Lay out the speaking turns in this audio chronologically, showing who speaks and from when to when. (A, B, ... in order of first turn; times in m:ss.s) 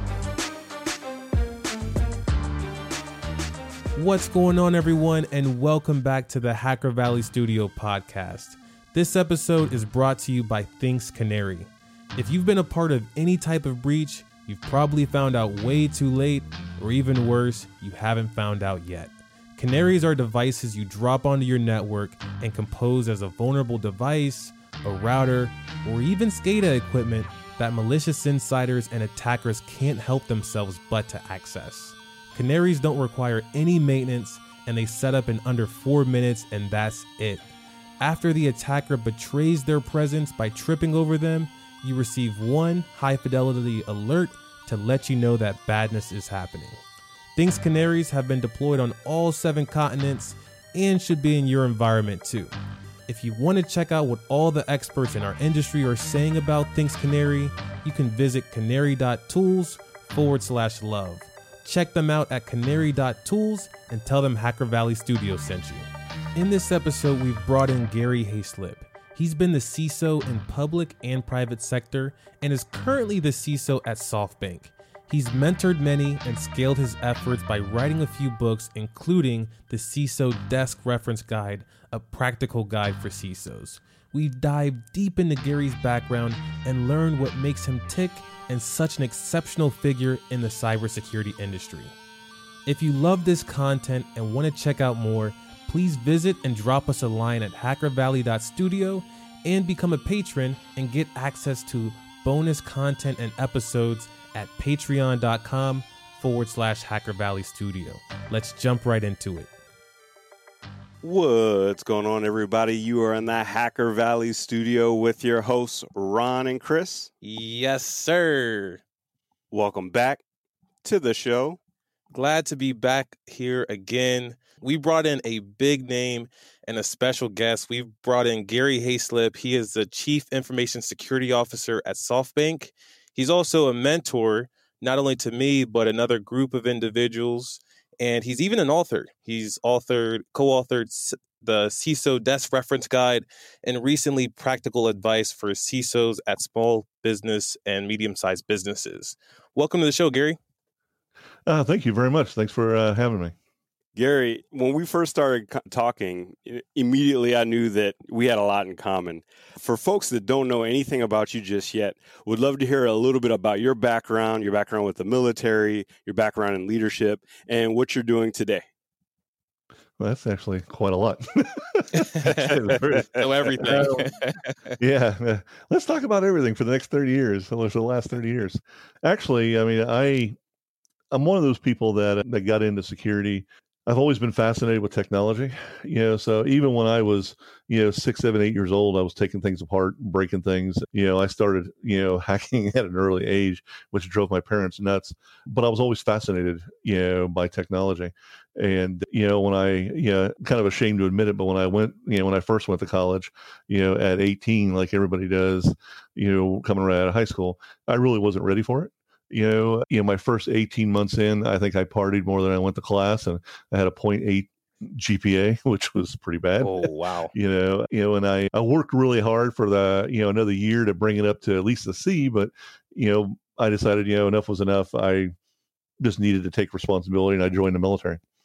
0:03.9-0:37.4 A
0:38.0-0:46.8 A
0:47.4-0:52.5 A
0:53.1-1:31.9 A
1:32.6-1:49.5 A
1:51.0-1:57.1 B
1:57.2-1:58.8 A
1:59.5-2:00.2 B
2:00.8-2:01.6 B
2:02.1-2:30.4 A
2:31.5-2:33.3 C
2:33.9-2:48.7 B
2:50.0-2:53.1 C
2:52.0-2:54.7 A
2:53.6-2:54.1 C
2:54.8-3:00.4 C
3:01.1-3:45.3 C
3:36.6-3:37.3 A
3:46.0-3:48.2 C